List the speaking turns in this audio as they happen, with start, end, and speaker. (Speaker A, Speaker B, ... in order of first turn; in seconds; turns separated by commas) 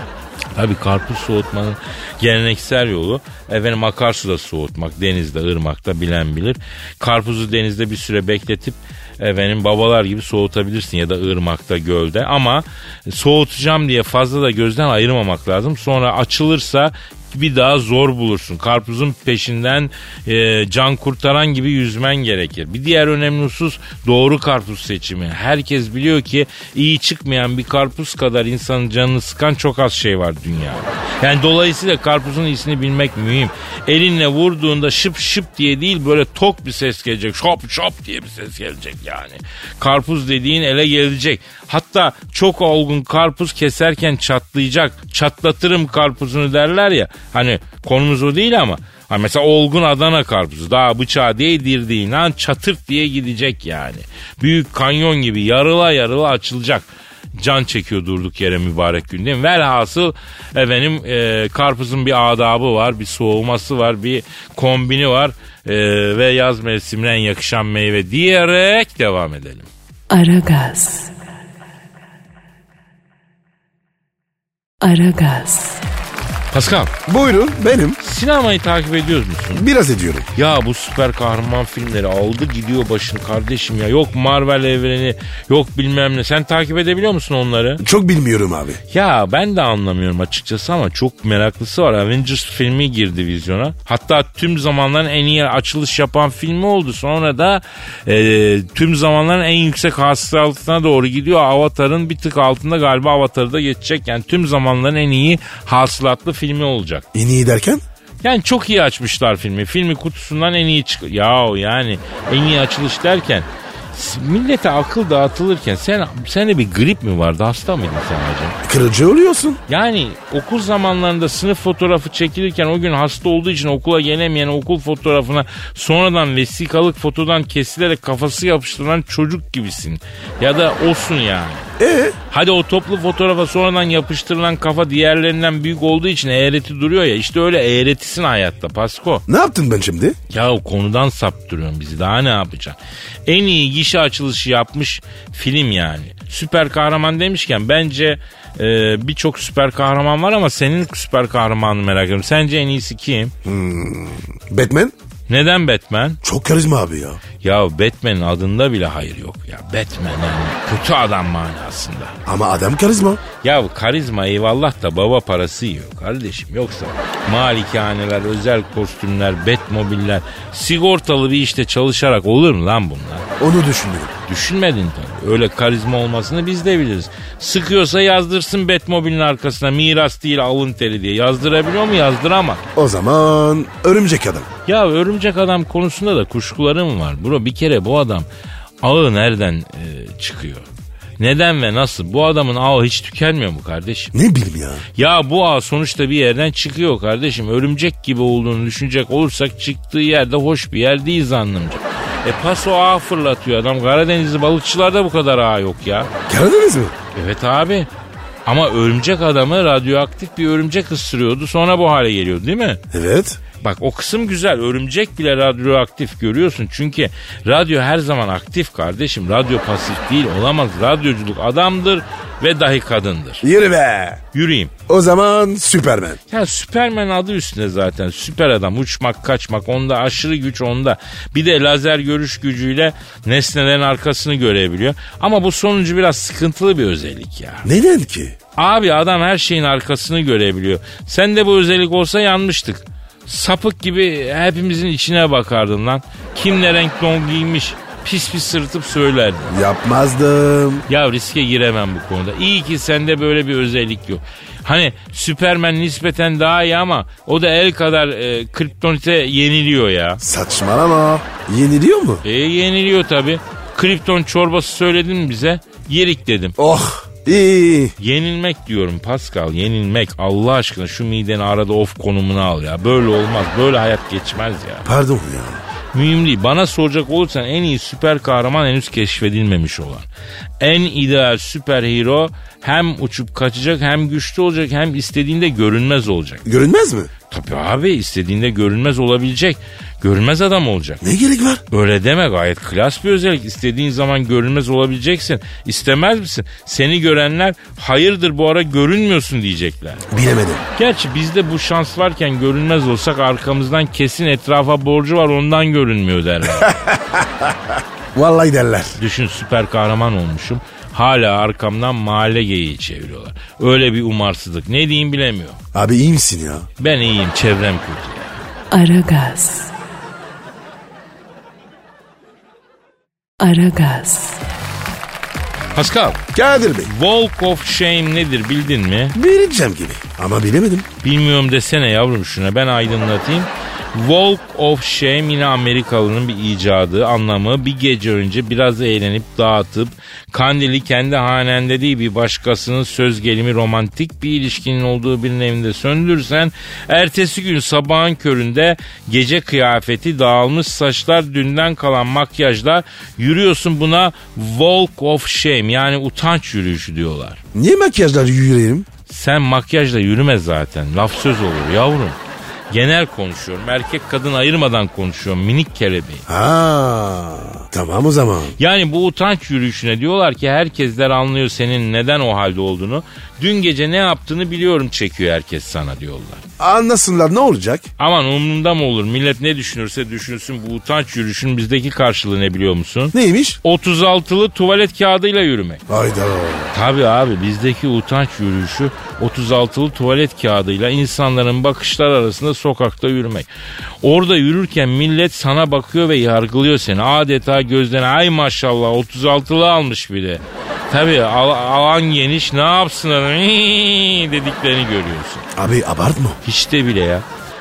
Speaker A: 0.5-69.7, Speaker B: 70.1-71.1, Speaker B: 74.8-75.8, Speaker A: 76.5-76.9, Speaker C: 77.0-78.0, Speaker A: 78.0-79.6, Speaker C: 79.5-80.3, Speaker A: 80.3-87.8, Speaker C: 87.8-88.8, Speaker A: 88.9-107.1, Speaker C: 107.1-107.8, Speaker A: 108.2-118.6, Speaker C: 118.6-119.6, Speaker A: 119.7-131.7, Speaker C: 131.8-132.2, Speaker A: 132.3-139.2, Speaker C: 139.3-140.2, Speaker A: 140.3-153.3, Speaker C: 153.4-154.9, Speaker A: 155.3-156.2, Speaker C: 156.2-157.2, Speaker A: 157.4-162.2, Speaker C: 162.2-163.2, Speaker A: 163.4-173.2, Speaker C: 173.4-174.1, Speaker A: 174.3-182.6, Speaker C: 182.8-184.5, Speaker A: 184.7-188.3, Speaker A: 188.8-190.7, Speaker A: 191.2-194.1, Speaker C: 194.1-194.8, Speaker A: 194.9-206.1, Speaker C: 206.3-206.9, Speaker A: 207.1-207.9, Speaker A: 208.4-212.8, Speaker C: 212.9-213.4, Speaker A: 213.6-223.4, Speaker C: 223.4-224.2, Speaker A: 224.3-224.7, Speaker C: 224.9-226.2, Speaker A: 226.3-237.7, Speaker C: 237.6-238.3, Speaker A: 238.6-249.5, Speaker C: 249.5-250.8, Speaker A: 250.9-260.2, Speaker C: 260.2-262.2, Speaker A: 262.2-266.6, Speaker C: 266.6-267.9, Speaker A: 268.0-274.9, Speaker C: 274.8-275.6, Speaker A: 275.9-280.1, Speaker A: 280.6-286.4, Speaker C: 286.4-287.1, Speaker A: 287.3-291.0, Speaker C: 291.0-291.6, Speaker A: 291.7-300.1, Speaker C: 300.1-300.6, Speaker A: 300.8-306.8, Speaker C: 306.6-309.0, Speaker A: 309.0-315.6, Speaker C: 315.7-316.7, Speaker A: 316.8-318.4, Speaker B: 318.7-319.7, Speaker B: 323.4-324.4, Speaker A: 325.7-326.2, Speaker C: 326.3-326.9, Speaker A: 326.9-329.1, Speaker C: 329.1-330.9, Speaker A: 331.0-357.4, Speaker C: 357.5-358.9, Speaker A: 359.1-362.2, Speaker A: 362.7-366.2, Speaker C: 366.3-368.6, Speaker A: 368.6-376.4, Speaker C: 376.6-377.9, Speaker A: 378.0-385.8, Speaker C: 383.1-383.6, Speaker C: 385.9-386.7, Speaker A: 386.7-393.5, Speaker A: 394.0-405.4, Speaker C: 405.5-406.4, Speaker A: 406.4-407.2